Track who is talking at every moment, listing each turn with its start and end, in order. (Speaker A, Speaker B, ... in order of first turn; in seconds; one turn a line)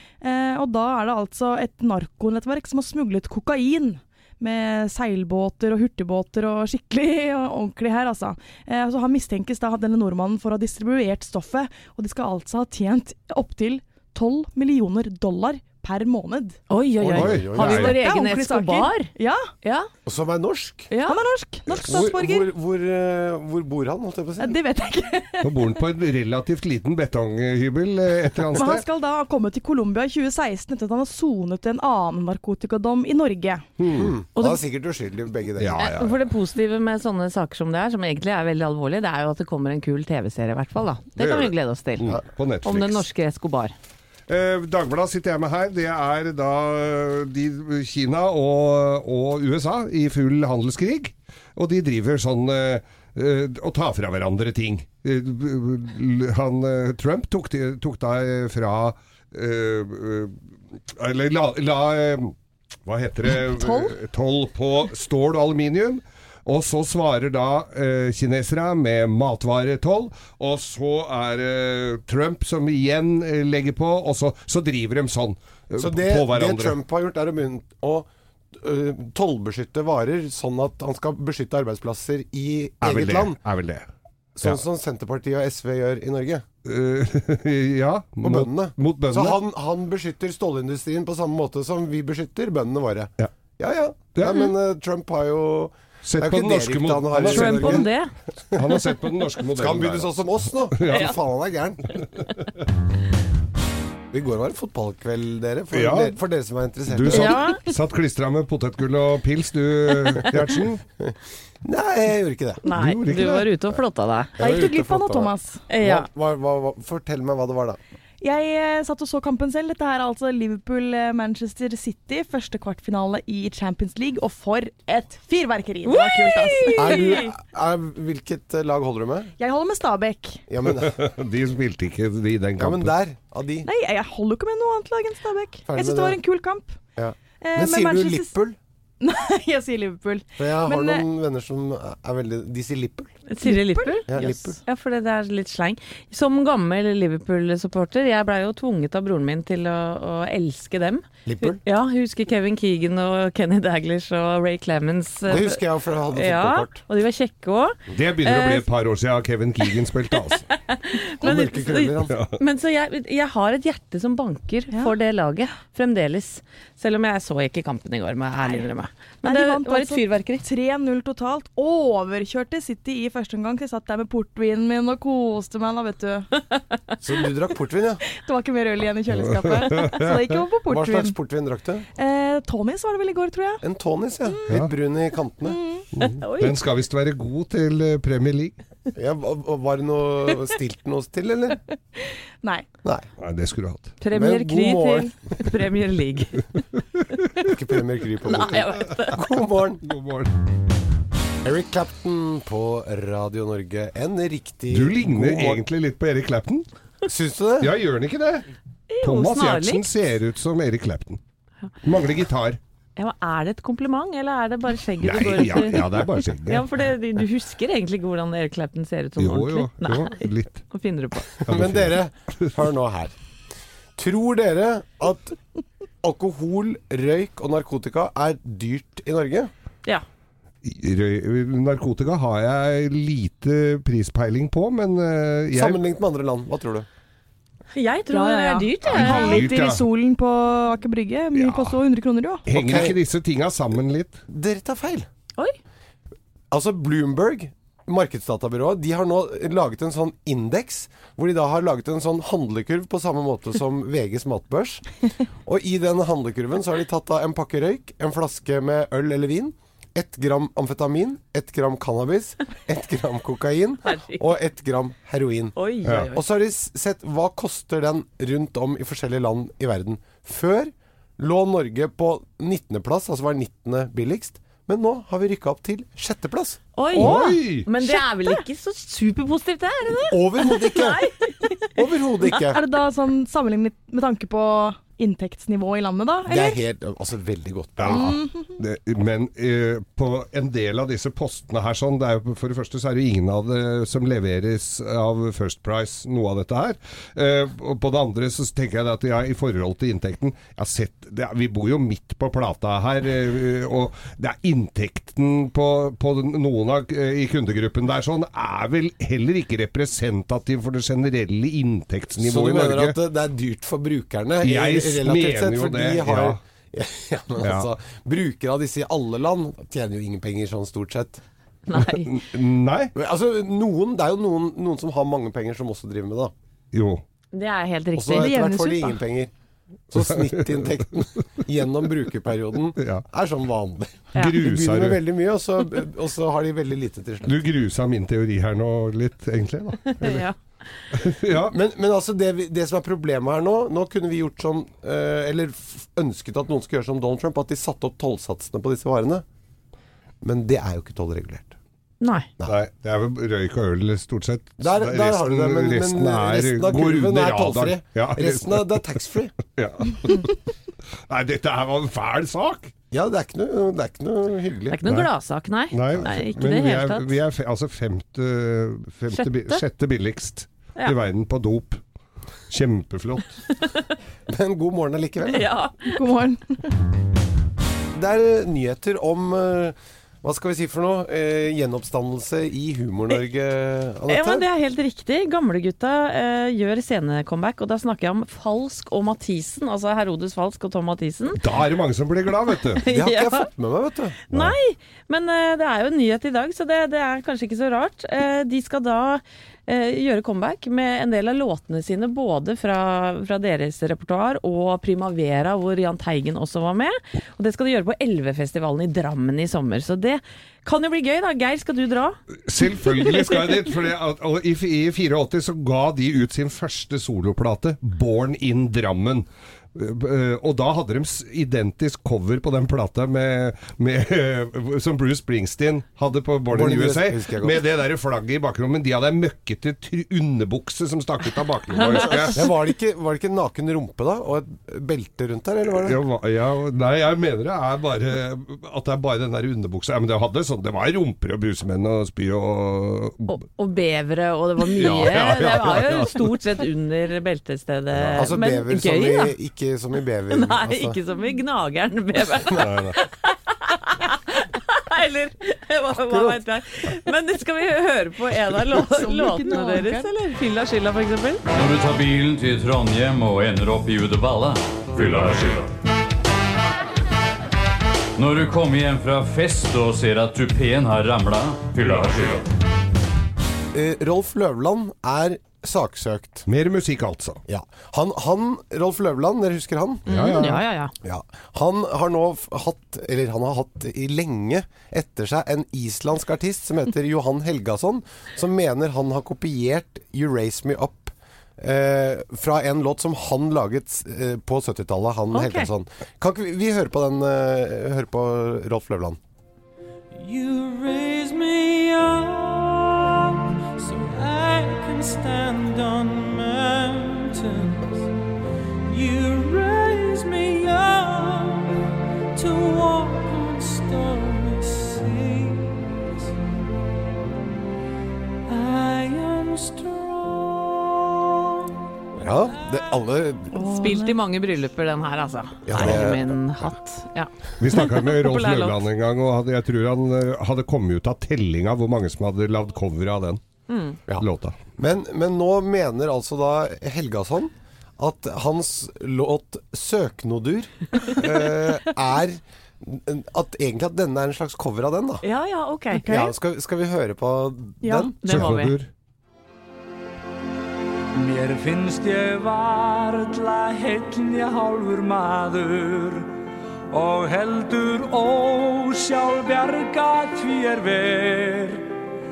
Speaker A: 0.2-16.6
Speaker B: 16.7-19.1
Speaker C: 17.0-17.9
Speaker D: 17.1-17.9
Speaker A: 17.8-19.5
Speaker B: 19.6-19.9
Speaker C: 20.1-20.9
Speaker B: 20.9-21.2
Speaker A: 21.1-22.5
Speaker C: 21.7-24.6
Speaker D: 21.8-22.1
Speaker A: 24.4-25.7
Speaker D: 25.4-28.8
Speaker A: 28.5-33.7
Speaker D: 33.8-34.1
Speaker C: 33.9-35.8
Speaker D: 35.6-36.2
Speaker B: 35.8-42.1
Speaker D: 41.2-43.0
Speaker B: 42.6-43.7
Speaker D: 44.3-60.3
Speaker D: 60.9-62.3
Speaker D: 62.9-76.8
Speaker A: 63.4-63.9
Speaker C: 75.8-83.4
Speaker D: 82.8-83.8
Speaker C: 84.3-86.5
Speaker D: 86.7-89.4
Speaker C: 88.2-97.9
Speaker D: 94.2-94.5
Speaker D: 96.0-97.9
Speaker B: 97.2-98.1
Speaker D: 98.5-100.1
Speaker C: 99.5-101.9
Speaker D: 100.7-101.1
Speaker B: 100.9-101.1
Speaker D: 102.2-102.4
Speaker C: 104.1-107.4
Speaker D: 105.7-106.2
Speaker D: 106.9-110.8
Speaker B: 107.1-107.6
Speaker C: 111.0-112.6
Speaker B: 112.6-114.3
Speaker D: 112.7-113.5
Speaker A: 114.4-115.6
Speaker C: 114.4-117.8
Speaker B: 115.7-116.1
Speaker A: 118.2-127.2
Speaker B: 125.8-127.3
Speaker C: 126.7-129.3
Speaker A: 129.4-130.4
Speaker C: 130.5-131.0
Speaker D: 130.8-132.9
Speaker C: 132.6-133.7
Speaker A: 133.6-136.8
Speaker C: 135.7-136.2
Speaker C: 136.9-138.6
Speaker A: 137.4-138.3
Speaker A: 139.0-141.1
Speaker C: 140.4-143.1
Speaker B: 143.3-155.6
Speaker A: 143.4-144.2
Speaker C: 144.1-144.6
Speaker C: 151.2-151.6
Speaker C: 155.3-156.8
Speaker B: 156.1-158.7
Speaker D: 157.9-160.4
Speaker B: 160.7-170.4
Speaker C: 161.2-162.2
Speaker D: 162.1-162.4
Speaker A: 169.2-176.3
Speaker C: 177.0-178.0
Speaker A: 178.2-181.2
Speaker D: 179.1-180.2
Speaker C: 180.7-181.9
Speaker A: 181.9-183.6
Speaker C: 183.6-185.6
Speaker A: 185.4-185.8
Speaker D: 185.9-188.6
Speaker B: 186.1-186.6
Speaker C: 188.9-191.6
Speaker C: 192.8-193.1
Speaker D: 193.2-194.0
Speaker B: 194.0-196.4
Speaker C: 194.1-195.1
Speaker C: 197.4-199.8
Speaker B: 198.3-199.2
Speaker D: 199.8-200.3
Speaker C: 201.4-205.6
Speaker D: 204.7-206.7
Speaker C: 207.1-207.7
Speaker D: 207.6-208.5
Speaker B: 208.9-209.8
Speaker D: 209.0-211.2
Speaker D: 211.8-212.6
Speaker B: 213.0-221.3
Speaker D: 215.0-216.7
Speaker D: 219.2-220.6
Speaker D: 221.4-222.0
Speaker C: 221.4-223.2
Speaker C: 224.0-225.4
Speaker C: 226.0-229.5
Speaker D: 230.6-235.8
Speaker C: 235.5-236.9
Speaker B: 237.7-239.5
Speaker A: 238.1-242.4
Speaker D: 238.8-239.8
Speaker D: 241.3-241.8
Speaker D: 242.5-244.2
Speaker C: 242.5-243.0
Speaker C: 244.3-245.1
Speaker C: 246.5-254.8
Speaker C: 255.4-265.6
Speaker B: 263.8-264.3
Speaker B: 265.6-266.2
Speaker C: 266.1-276.6
Speaker B: 276.8-281.4
Speaker D: 276.9-277.7
Speaker A: 277.0-277.4
Speaker C: 280.1-281.0
Speaker C: 281.7-282.6
Speaker A: 282.4-286.6
Speaker C: 286.2-288.1
Speaker D: 287.8-313.0
Speaker A: 287.9-288.5
Speaker C: 312.2-321.2
Speaker D: 314.4-316.4
Speaker D: 317.4-317.7
Speaker B: 321.7-322.2
Speaker D: 321.8-322.9
Speaker C: 322.9-326.3
Speaker D: 326.7-327.0
Speaker B: 327.3-328.7
Speaker C: 327.9-329.3
Speaker A: 328.2-328.8
Speaker C: 329.9-337.4
Speaker D: 330.1-330.6
Speaker D: 332.8-333.0
Speaker D: 334.2-335.0
Speaker D: 337.2-340.3
Speaker B: 339.9-340.4
Speaker D: 340.9-341.6
Speaker C: 341.5-349.2
Speaker C: 350.2-351.6
Speaker B: 352.0-352.3
Speaker D: 352.4-358.8
Speaker C: 354.6-359.4
Speaker D: 359.4-360.4
Speaker D: 361.1-362.7
Speaker C: 362.9-364.8
Speaker B: 364.7-367.1
Speaker D: 364.8-365.1
Speaker D: 365.7-371.8
Speaker B: 369.1-369.6
Speaker D: 372.5-373.4
Speaker C: 374.3-375.5
Speaker B: 375.3-376.0
Speaker A: 375.9-376.7
Speaker C: 377.9-384.5
Speaker B: 384.1-391.4
Speaker D: 391.3-392.8
Speaker B: 392.8-393.5
Speaker C: 392.9-394.2
Speaker B: 394.3-412.2
Speaker D: 412.5-432.5
Speaker B: 412.9-413.4
Speaker C: 426.5-427.6
Speaker C: 432.3-436.0
Speaker D: 435.8-443.4
Speaker B: 443.3-449.3
Speaker D: 444.7-446.3
Speaker C: 448.1-451.0
Speaker B: 450.3-461.4
Speaker D: 452.5-453.0
Speaker C: 456.0-456.4
Speaker A: 458.7-460.1
Speaker E: 461.5-465.7
Speaker E: 468.2-472.5
Speaker C: 473.7-476.5
Speaker D: 476.5-477.4
Speaker C: 477.5-480.1
Speaker D: 480.1-480.6
Speaker B: 480.1-480.9
Speaker C: 481.0-499.2
Speaker B: 495.3-495.7
Speaker F: 500.1-508.1
Speaker F: 508.9-516.3
Speaker F: 518.5-521.7
Speaker C: 522.2-523.5
Speaker A: 523.5-524.1
Speaker B: 523.5-528.8
Speaker C: 525.6-526.4
Speaker D: 527.6-533.4
Speaker B: 533.7-534.0
Speaker D: 534.2-534.6
Speaker C: 534.8-545.2
Speaker B: 545.2-546.0
Speaker A: 545.9-546.3
Speaker C: 546.1-548.2
Speaker A: 547.8-548.1
Speaker B: 548.2-548.7
Speaker D: 548.2-548.9
Speaker F: 551.1-556.3
Speaker F: 556.9-561.9